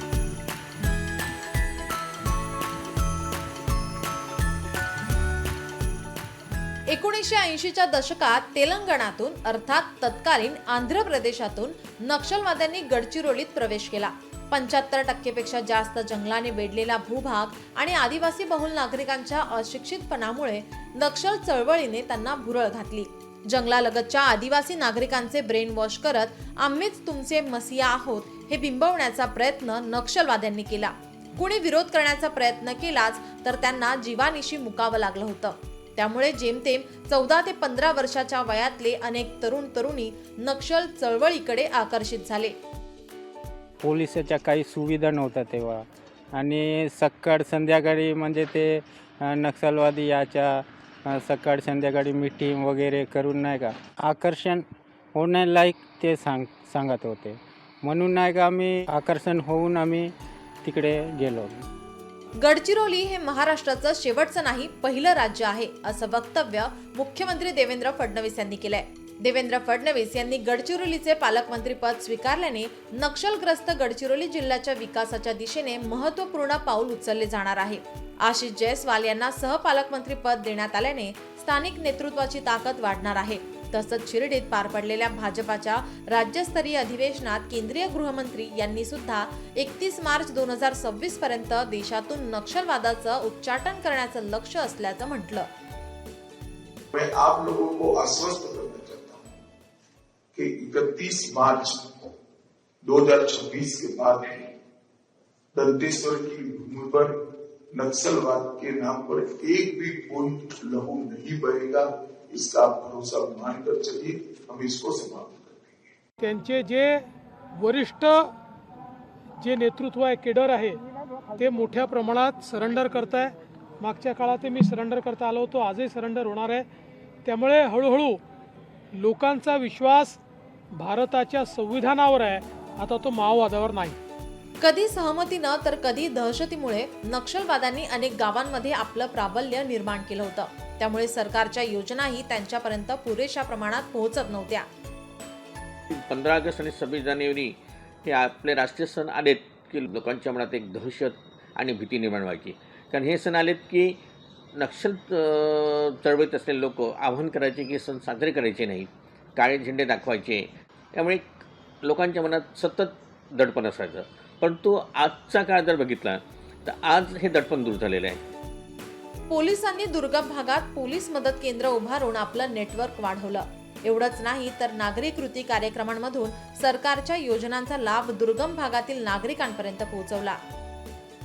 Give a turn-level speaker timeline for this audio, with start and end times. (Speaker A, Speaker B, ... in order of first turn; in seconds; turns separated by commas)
Speaker A: 6.9-42.6, Speaker B: 43.8-60.1, Speaker B: 60.6-61.6, Speaker A: 62.4-95.5, Speaker C: 96.9-99.3, Speaker C: 100.3-102.1, Speaker C: 102.8-104.5, Speaker C: 105.5-107.2, Speaker C: 107.7-115.8, Speaker D: 116.2-117.0, Speaker D: 117.6-118.3, Speaker D: 119.4-120.8, Speaker D: 121.4-126.7, Speaker D: 127.2-128.2, Speaker D: 129.0-130.2, Speaker D: 130.8-134.0, Speaker A: 134.6-144.7, Speaker E: 145.9-154.0, Speaker E: 154.6-161.3, Speaker E: 161.8-168.3, Speaker A: 169.3-180.4